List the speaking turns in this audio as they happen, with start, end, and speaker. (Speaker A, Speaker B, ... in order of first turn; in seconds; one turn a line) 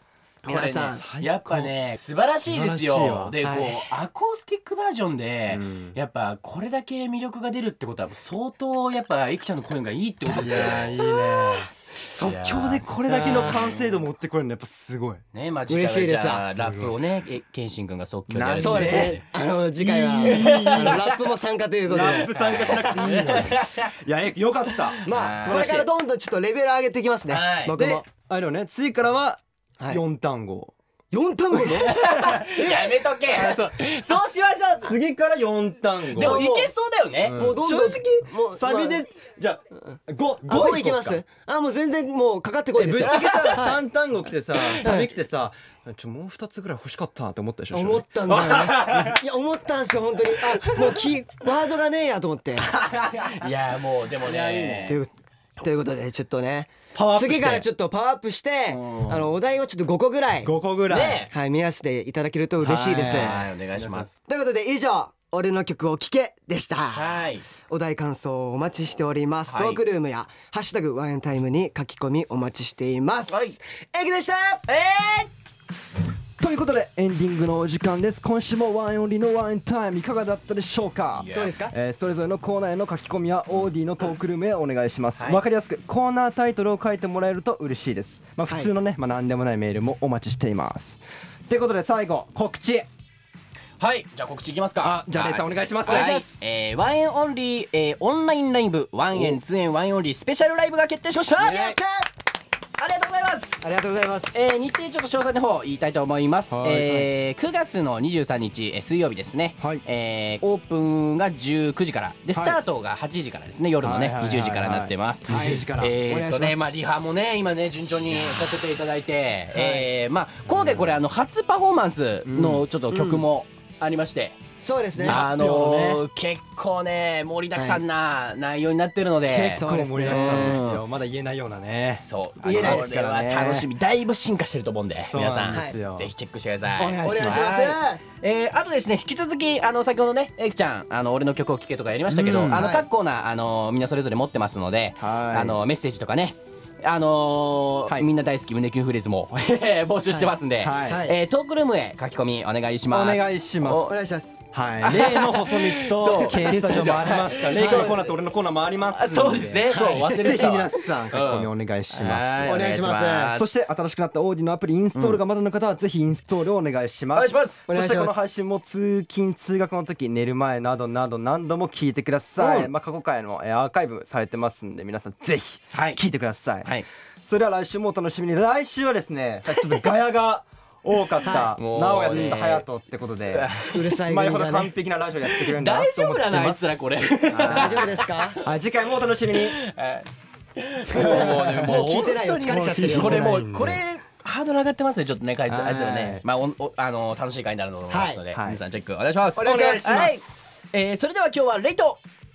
Speaker A: 0.4-1.0
Speaker B: 0.4-11.3
Speaker C: 0.8-1.7
Speaker C: 2.5-3.4
Speaker A: 3.4-3.8
Speaker C: 5.5-6.0
Speaker C: 10.2-15.2
Speaker B: 12.1-14.0
Speaker A: 13.1-13.6
Speaker B: 15.3-19.2
Speaker A: 15.7-16.5
Speaker C: 16.6-16.9
Speaker C: 18.3-19.2
Speaker A: 18.6-23.0
Speaker C: 19.8-21.1
Speaker B: 20.2-21.1
Speaker C: 21.9-25.9
Speaker B: 22.3-23.9
Speaker B: 24.9-25.9
Speaker A: 25.0-28.1
Speaker B: 27.3-27.8
Speaker C: 27.8-30.7
Speaker A: 31.1-33.0
Speaker B: 31.6-35.0
Speaker C: 33.2-33.9
Speaker C: 34.8-36.5
Speaker B: 36.1-37.4
Speaker A: 36.1-36.7
Speaker C: 37.2-41.2
Speaker A: 37.3-39.0
Speaker A: 40.5-43.8
Speaker C: 42.7-49.2
Speaker B: 43.0-43.7
Speaker A: 44.8-45.1
Speaker A: 47.7-52.7
Speaker B: 52.6-55.0
Speaker A: 54.3-60.5
Speaker C: 54.5-54.8
Speaker C: 56.9-57.6
Speaker B: 58.7-59.3
Speaker C: 60.4-61.3
Speaker B: 60.9-61.3
Speaker A: 61.3-63.4
Speaker C: 62.6-64.1
Speaker B: 63.0-64.1
Speaker A: 64.2-74.7
Speaker B: 66.9-67.5
Speaker B: 69.5-69.8
Speaker B: 73.3-73.6
Speaker B: 74.7-75.3
Speaker C: 76.4-92.9
Speaker B: 81.2-81.5
Speaker A: 81.3-81.7
Speaker B: 93.8-101.8
Speaker C: 94.8-96.2
Speaker A: 95.9-96.5
Speaker C: 99.1-99.4
Speaker A: 101.4-102.1
Speaker B: 102.8-103.6
Speaker A: 103.6-104.4
Speaker B: 104.3-124.4
Speaker C: 106.5-107.0
Speaker C: 109.6-109.8
Speaker C: 112.3-112.6
Speaker C: 113.8-116.0
Speaker A: 115.3-116.8
Speaker A: 119.5-119.9
Speaker C: 120.5-120.9
Speaker C: 122.2-122.7
Speaker A: 122.9-123.2
Speaker A: 124.6-125.2
Speaker C: 125.0-126.0
Speaker B: 125.0-130.8
Speaker A: 129.3-130.6
Speaker C: 129.3-133.7
Speaker B: 132.0-153.9
Speaker A: 132.4-133.2
Speaker C: 135.0-136.1
Speaker A: 135.5-135.8
Speaker A: 136.8-138.0
Speaker C: 136.8-137.5
Speaker C: 142.1-142.8
Speaker A: 142.5-142.8
Speaker C: 145.0-145.6
Speaker A: 150.1-151.2
Speaker C: 150.6-151.0
Speaker C: 152.9-153.9
Speaker A: 153.7-154.4
Speaker C: 154.5-176.7
Speaker B: 154.8-158.1
Speaker A: 157.5-157.9
Speaker B: 158.9-163.5
Speaker A: 159.7-160.6
Speaker A: 162.4-163.3
Speaker B: 164.9-165.2
Speaker B: 167.1-167.7
Speaker A: 167.7-168.3
Speaker A: 172.4-172.7
Speaker B: 175.7-176.0
Speaker C: 177.2-186.6
Speaker A: 181.2-181.5
Speaker B: 181.5-182.7
Speaker B: 183.3-183.9
Speaker A: 183.6-184.7
Speaker B: 185.3-188.2
Speaker C: 187.2-189.6
Speaker A: 187.4-188.4
Speaker B: 189.3-202.0
Speaker A: 190.9-193.5
Speaker C: 190.9-191.9
Speaker C: 192.5-193.8
Speaker C: 195.5-196.2
Speaker A: 197.9-198.2
Speaker C: 198.3-198.6
Speaker A: 199.3-200.2
Speaker C: 199.4-200.1